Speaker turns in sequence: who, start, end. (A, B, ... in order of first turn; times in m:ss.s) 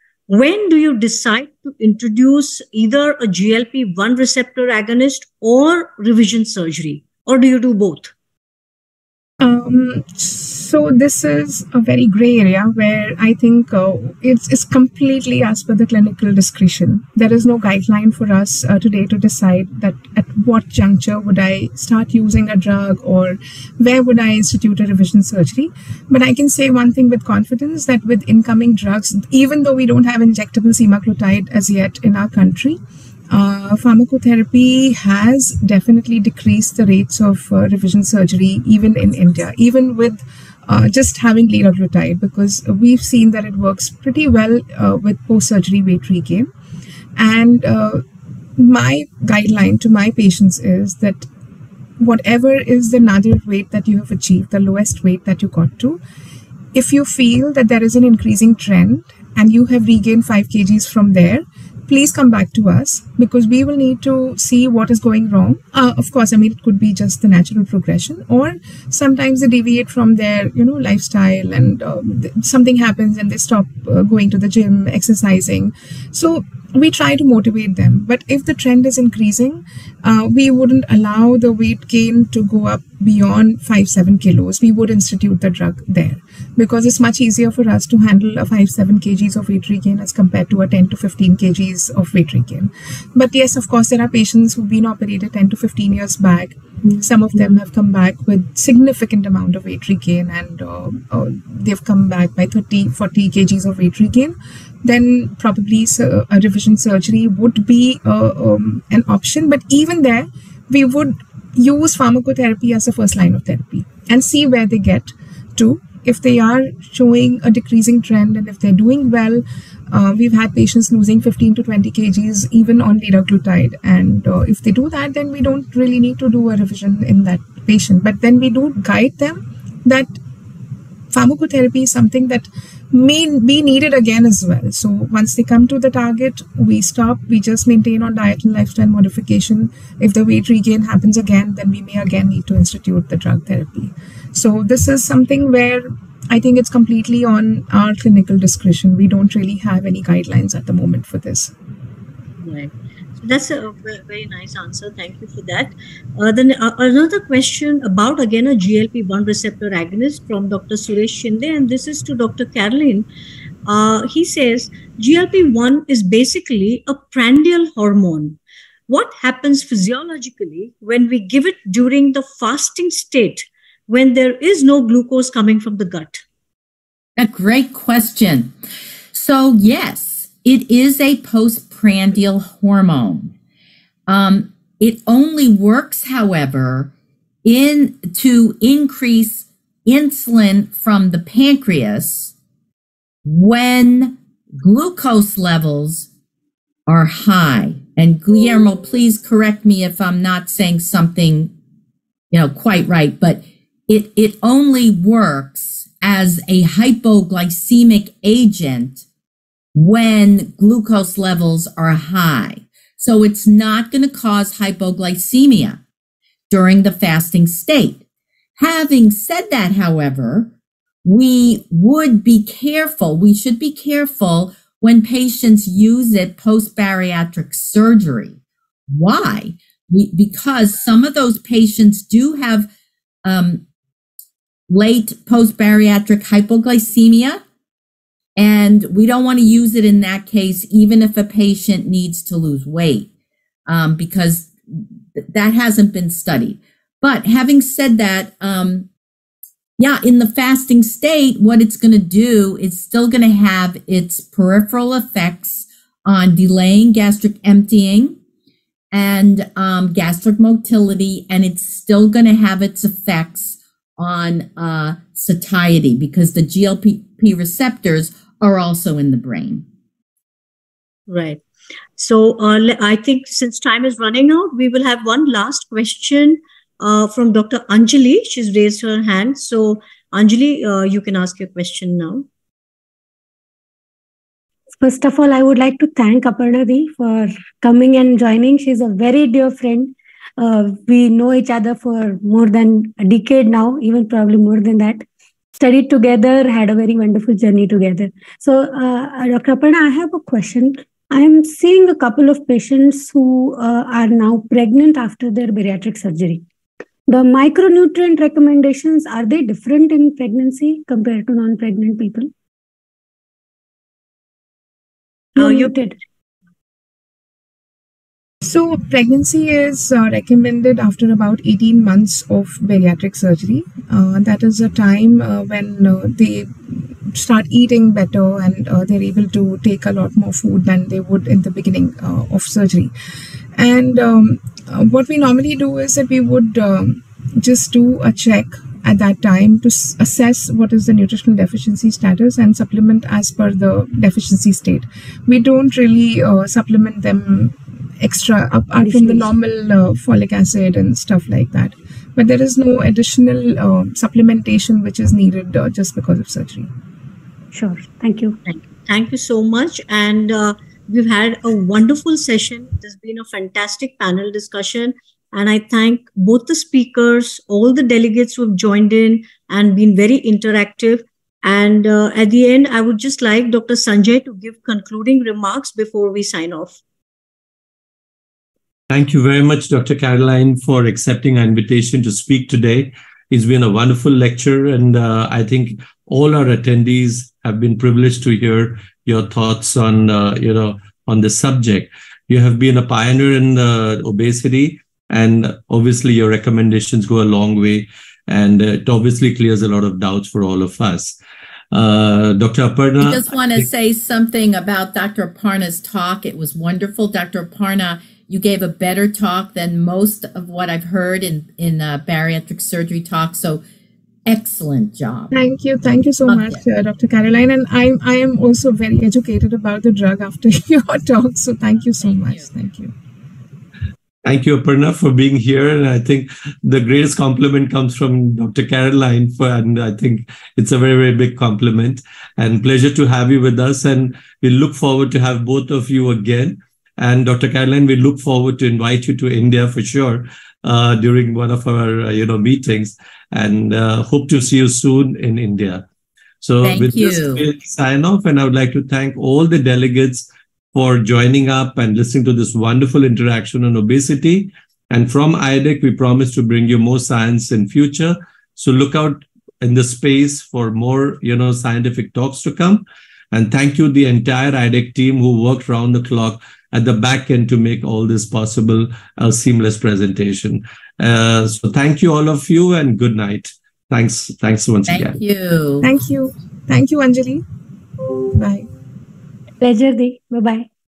0:00.3-0:08.1 A
0:09.4-0:32.8 B
0:33.3-0:46.5 B
0:47.2-0:48.0 B
0:48.6-0:51.3 B
0:52.0-0:56.0 B
0:56.7-2:10.1 B
2:11.1-2:31.5 B
2:32.4-2:43.1 A
2:43.7-2:56.2 A
2:57.2-2:58.5 C
2:59.1-3:03.3 C
3:04.1-3:06.9 C
3:07.4-3:12.3 C
3:13.2-3:16.1 C
3:16.9-3:21.5 C
3:22.3-3:29.1 C
3:29.8-3:35.8 C
3:36.5-3:38.0 C
3:38.6-3:40.5 C
3:41.0-3:48.4 C
3:48.9-3:52.7 C
3:53.2-3:53.6 C
3:54.7-3:57.4 C
3:58.4-4:03.1 C
4:03.7-4:08.9 C
4:09.8-4:18.2 C
4:18.9-4:29.6 C
4:31.1-4:31.4 A
4:32.0-4:42.3 A
4:44.8-4:55.0 D
4:55.6-5:06.4 D
5:07.1-5:12.3 D
5:15.4-5:16.0 D
5:15.4-5:15.7 A
5:18.4-5:32.9 B
5:33.6-5:56.7 B
5:48.8-5:49.3 D
5:57.5-5:58.4 D
5:58.5-6:16.8 A
6:18.9-6:41.2 E
6:41.7-6:43.2 E
6:43.0-6:53.6 C
6:54.3-6:55.3 C
6:55.3-7:02.9 B
6:56.3-6:56.6 C
7:02.0-7:02.5 C
7:04.2-7:25.9 E
7:26.4-7:55.2 E
7:26.6-7:27.4 C
7:54.9-7:55.9 C
7:55.8-7:57.4 B
7:58.3-7:58.7 B
7:59.6-8:00.7 D